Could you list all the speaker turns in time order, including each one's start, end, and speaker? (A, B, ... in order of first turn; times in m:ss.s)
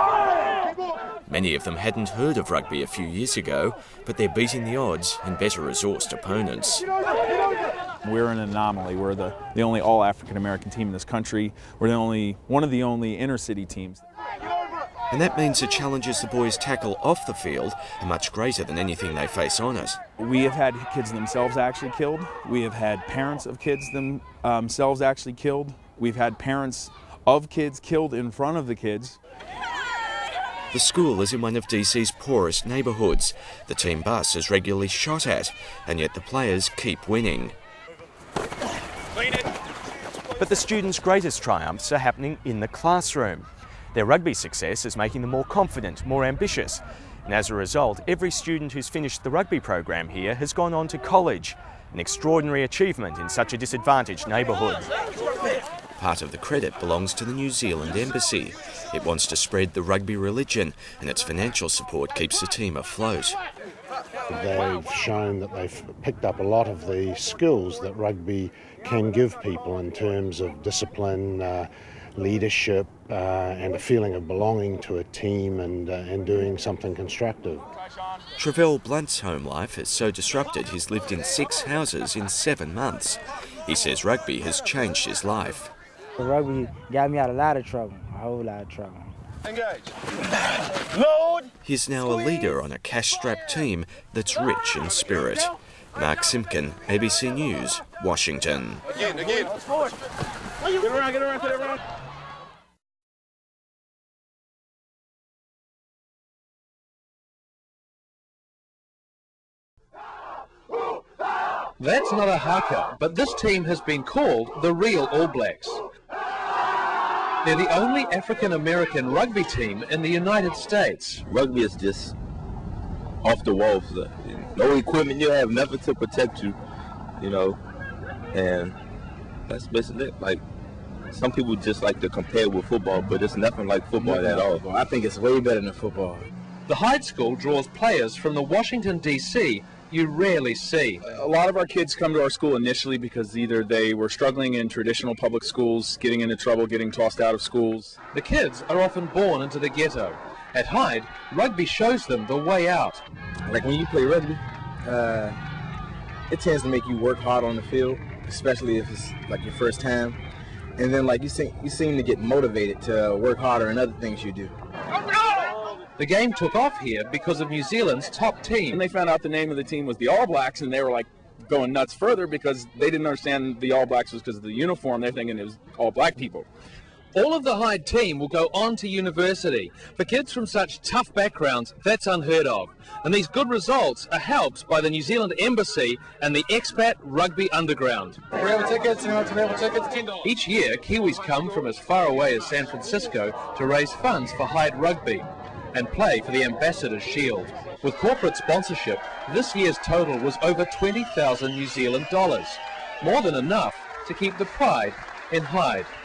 0:01.3-0:06.8 A
0:08.0-0:14.0 B
0:15.1-0:20.0 A
0:20.2-0:29.2 B
0:30.7-0:37.5 A
0:40.4-0:54.9 A
0:56.0-1:03.4 A
1:04.3-1:17.6 C
1:18.4-1:25.7 A
1:26.2-1:29.1 D
1:31.6-1:38.8 A
1:51.8-1:55.8 E
1:57.4-2:01.2 E
2:01.3-2:02.1 F
2:03.2-2:06.6 F
2:07.2-2:07.6 F
2:08.3-2:08.8 F
2:09.5-2:10.4 F
2:11.1-2:14.6 F
2:14.0-2:16.3 G
2:16.7-2:21.0 E
2:21.1-2:28.0 B
2:28.1-2:33.0 E
2:33.5-2:35.4 G
2:36.3-2:40.2 G
2:40.8-2:44.5 G
2:46.0-2:48.8 E
2:48.7-2:56.5 B
2:57.1-3:08.2 E
3:08.4-3:10.0 G
3:10.1-3:25.9 E